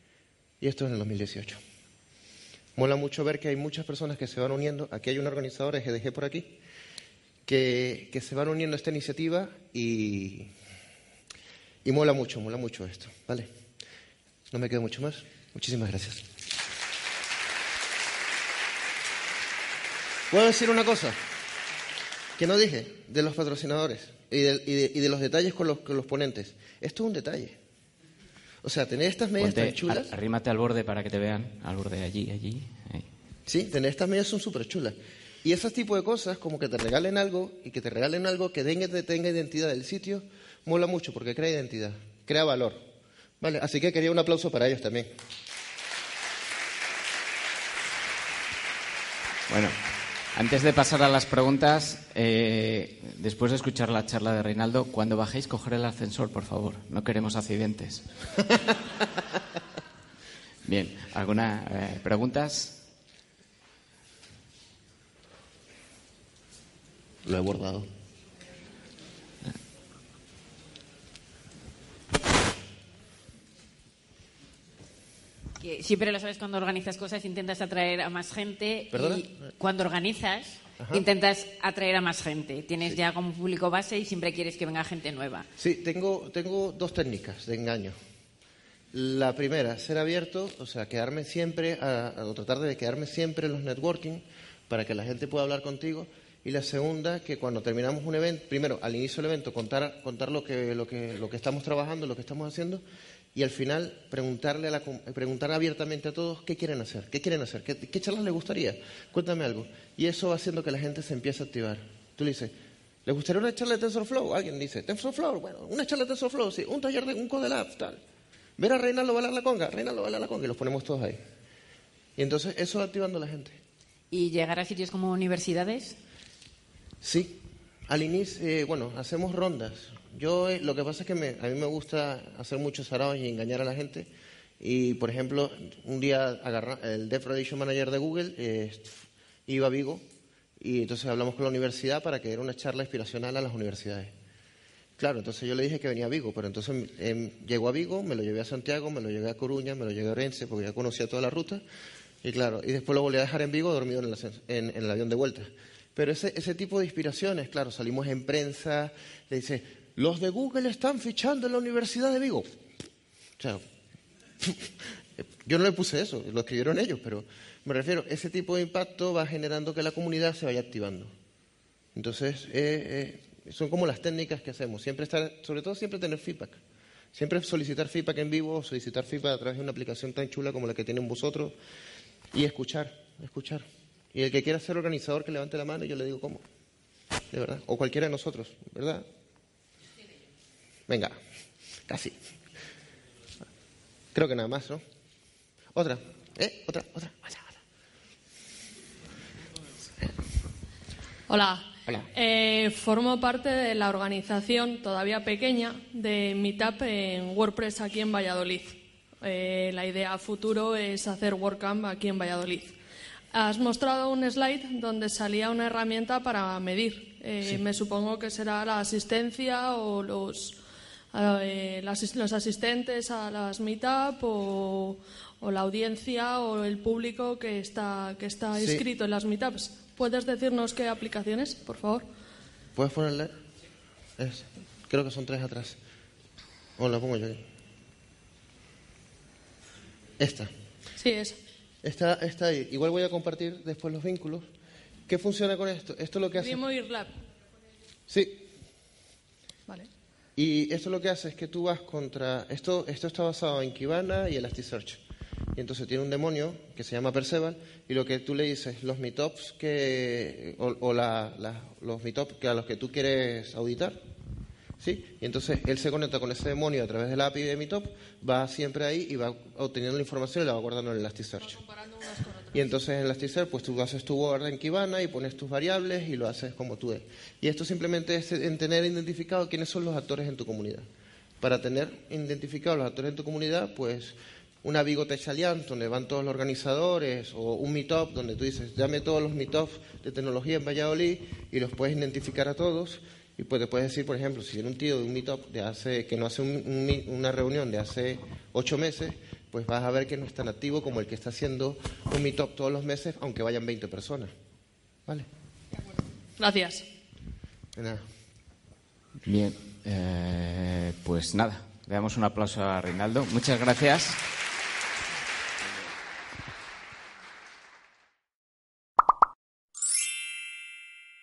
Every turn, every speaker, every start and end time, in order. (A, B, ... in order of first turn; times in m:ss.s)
0:00.6-0:01.6 A
0:02.8-0:06.6 A
0:07.5-0:10.5 A
0:11.8-0:13.5 A
0:14.5-0:16.2 A
0:20.3-0:21.2 A
0:22.4-0:27.6 A
0:28.6-0:30.1 A
0:29.4-0:33.1 B
0:33.5-0:42.8 A
0:43.4-0:45.1 A
0:49.5-0:49.8 B
0:50.3-0:58.1 B
1:00.6-1:02.9 B
1:07.2-1:07.9 A
1:15.6-1:25.5 C
1:18.9-1:19.4 A
1:20.8-1:21.0 A
1:25.6-1:28.0 A
1:28.9-1:42.8 A
1:43.4-1:52.5 A
1:53.1-1:58.0 A
1:58.6-2:01.2 A
2:02.2-2:03.6 A
2:04.1-2:06.0 C
2:07.0-2:14.1 A
2:14.6-2:20.0 A
2:20.6-2:24.1 A
2:25.0-2:31.6 A
2:32.2-2:42.5 A
2:44.4-2:51.1 A
2:52.0-2:56.6 A
2:57.1-3:01.6 A
3:02.3-3:06.4 A
3:07.3-3:09.1 A
3:10.9-3:11.2 A
3:11.9-3:12.2 A
3:14.1-3:14.8 A
3:15.7-3:17.6 A
3:21.3-3:32.8 D
3:33.3-3:40.6 D
3:41.1-3:52.1 D
3:48.6-3:48.8 A
3:52.8-3:53.3 A
3:54.2-3:55.8 A
3:56.8-3:57.4 A
4:00.2-4:00.5 A
4:01.0-4:01.4 D
4:01.8-4:04.5 A
4:05.1-4:06.6 A
4:06.4-4:07.2 D
4:08.1-4:08.4 A
4:10.4-4:15.0 A
4:15.6-4:24.0 A
4:24.8-4:31.6 A
4:31.4-4:32.7 D
4:32.5-4:40.9 A
4:41.4-5:04.3 A
5:06.4-5:06.9 D
5:07.8-5:08.0 A
5:09.2-5:14.2 B